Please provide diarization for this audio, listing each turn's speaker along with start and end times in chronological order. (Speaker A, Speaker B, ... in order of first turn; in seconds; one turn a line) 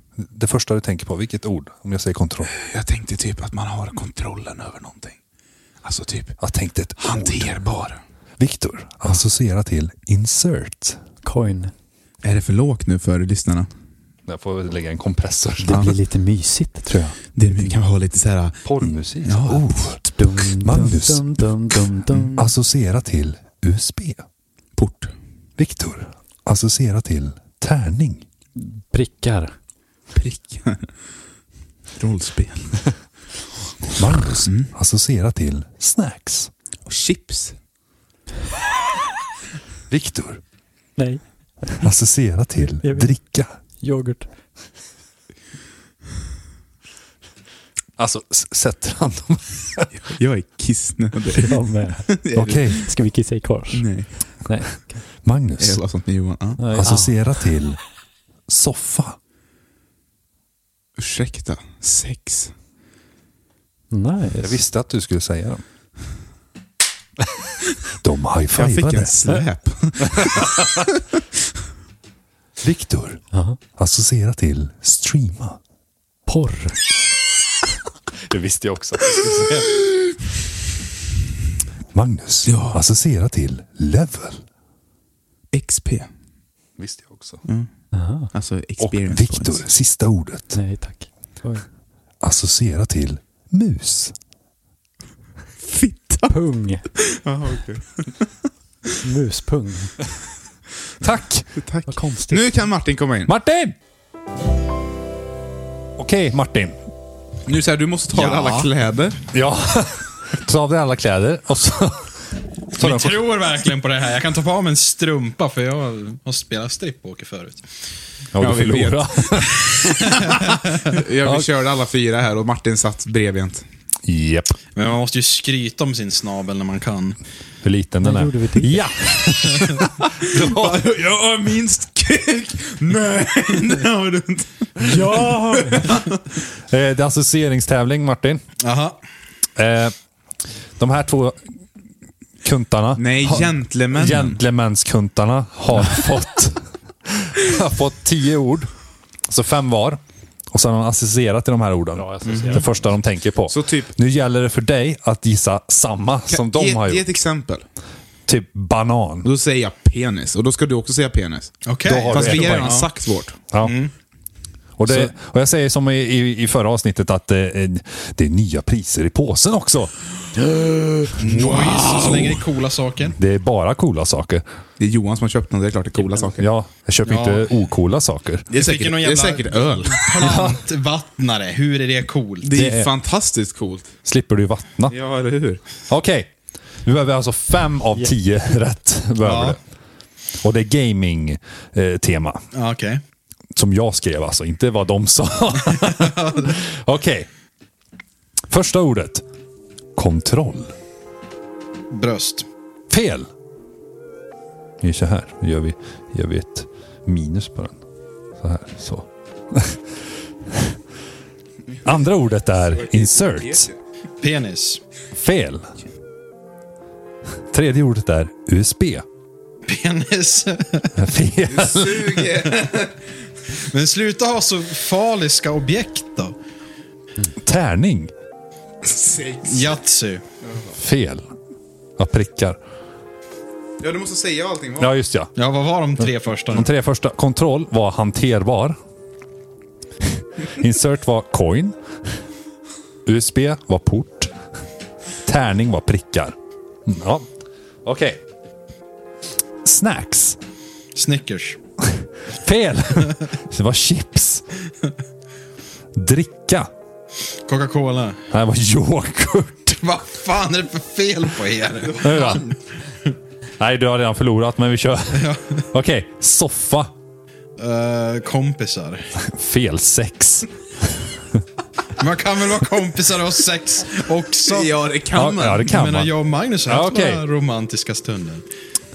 Speaker A: 0.2-2.5
Speaker B: 2.5-5.2
Speaker B: 5.8-6.4
Speaker A: 6.4-7.5
Speaker B: 7.0-8.0
Speaker A: 8.4-11.0
Speaker C: 11.2-11.7
Speaker B: 12.2-13.7
Speaker A: 14.3-16.0
Speaker C: 15.6-17.1
Speaker A: 16.9-17.1
Speaker B: 17.4-20.1
Speaker A: 18.6-20.0
Speaker C: 20.2-22.4
Speaker A: 20.5-21.3
Speaker A: 22.4-24.2
Speaker B: 24.8-25.1
Speaker A: 25.6-28.2
Speaker C: 28.6-29.5
Speaker B: 30.1-30.9
Speaker B: 32.0-32.8
Speaker A: 34.0-36.5
Speaker B: 34.3-34.7
Speaker B: 36.9-37.5
Speaker A: 39.9-40.4
Speaker C: 41.0-41.9
Speaker A: 41.8-43.5
Speaker C: 42.8-43.1
Speaker C: 43.8-44.3
Speaker A: 48.0-49.9
Speaker B: 50.1-51.5
Speaker C: 51.4-52.1
Speaker B: 52.1-52.9
Speaker A: 52.4-52.8
Speaker C: 52.6-53.9
Speaker B: 53.7-54.1
Speaker C: 54.5-55.0
Speaker A: 55.2-55.8
Speaker B: 55.6-56.6
Speaker C: 56.6-57.2
Speaker A: 56.7-57.8
Speaker A: 58.5-59.2
Speaker B: 61.0-62.5
Speaker C: 63.9-64.6
Speaker A: 64.4-65.6
Speaker A: 68.0-69.1
Speaker B: 68.6-71.0
Speaker A: 70.2-70.9
Speaker A: 72.6-75.6
Speaker C: 73.3-73.6
Speaker C: 76.3-76.8
Speaker A: 78.3-79.8
Speaker A: 81.9-84.4
Speaker B: 82.5-82.8
Speaker B: 85.5-86.1
Speaker A: 86.8-87.4
Speaker C: 87.9-88.3
Speaker B: 88.3-89.7
Speaker A: 88.8-90.6
Speaker C: 90.5-91.7
Speaker A: 92.2-94.1
Speaker B: 95.6-96.3
Speaker C: 96.3-96.8
Speaker B: 97.0-98.3
Speaker C: 99.0-100.0
Speaker A: 101.0-101.6
Speaker B: 101.6-103.3
Speaker C: 101.9-102.5
Speaker A: 103.3-103.8
Speaker A: 106.0-106.8
Speaker B: 107.5-109.2
Speaker D: 108.1-108.7
Speaker A: 109.3-112.1
Speaker A: 112.8-113.2
Speaker D: 112.8-117.7
Speaker A: 118.3-120.2
Speaker B: 118.4-123.6
Speaker D: 120.5-120.8
Speaker A: 124.0-124.6
Speaker D: 124.8-127.2
Speaker A: 127.6-130.8
Speaker C: 128.0-128.9
Speaker D: 129.5-129.8
Speaker B: 130.2-136.2
Speaker C: 134.8-136.0
Speaker A: 136.7-138.4
Speaker D: 138.6-139.0
Speaker A: 139.6-139.9
Speaker A: 140.8-141.4
Speaker A: 142.4-148.7
Speaker B: 143.0-144.4
Speaker A: 149.3-150.0
Speaker A: 150.5-157.0
Speaker C: 152.0-152.9
Speaker D: 152.3-152.6
Speaker B: 153.5-153.9
Speaker B: 156.3-157.6
Speaker A: 158.3-159.3
Speaker B: 159.2-163.4
Speaker D: 161.7-162.9
Speaker A: 161.9-162.8
Speaker D: 163.6-163.9
Speaker A: 164.8-172.4
Speaker D: 171.2-173.2
Speaker B: 171.3-171.8
Speaker A: 173.2-174.4
Speaker B: 174.8-176.4
Speaker A: 176.4-178.5
Speaker D: 177.1-177.5
Speaker B: 178.5-180.6
Speaker D: 178.5-182.6
Speaker A: 180.2-180.6
Speaker B: 182.4-183.9
Speaker A: 182.6-182.9
Speaker A: 184.1-184.9
Speaker B: 184.9-185.6
Speaker A: 185.9-186.3
Speaker A: 186.8-189.6
Speaker D: 189.2-189.6
Speaker A: 190.4-192.4
Speaker D: 192.5-193.0
Speaker A: 193.6-197.3
Speaker D: 195.7-196.5
Speaker A: 198.5-199.2
Speaker A: 199.9-200.7
Speaker D: 201.9-202.5
Speaker A: 202.9-203.3
Speaker A: 204.8-207.8
Speaker A: 208.4-209.8
Speaker A: 210.5-210.8
Speaker B: 211.7-212.0
Speaker A: 211.8-213.7
Speaker B: 212.7-213.7
Speaker D: 214.2-214.8
Speaker A: 215.1-215.7
Speaker A: 217.5-219.1
Speaker D: 219.7-221.1
Speaker A: 221.0-222.5
Speaker B: 221.5-223.0
Speaker D: 223.5-226.3
Speaker A: 227.4-228.1
Speaker B: 228.8-229.7
Speaker D: 229.4-230.2
Speaker B: 230.4-230.7
Speaker A: 230.8-231.3
Speaker A: 232.0-232.6
Speaker B: 233.8-235.0
Speaker A: 234.8-235.3
Speaker D: 235.4-236.7
Speaker A: 236.1-238.8
Speaker A: 240.5-241.8
Speaker A: 243.1-244.3
Speaker A: 245.2-247.3
Speaker A: 247.8-248.2
Speaker A: 249.6-250.4
Speaker D: 250.9-251.6
Speaker A: 251.8-254.4
Speaker A: 255.9-256.7
Speaker D: 257.3-258.2
Speaker A: 258.3-259.8
Speaker D: 259.8-262.6
Speaker A: 262.0-262.5
Speaker A: 263.6-266.9
Speaker D: 265.1-265.6
Speaker D: 267.6-269.1
Speaker A: 269.3-270.5
Speaker D: 272.0-274.7
Speaker B: 274.4-275.7
Speaker A: 275.1-276.1
Speaker D: 275.6-278.4
Speaker A: 276.7-277.2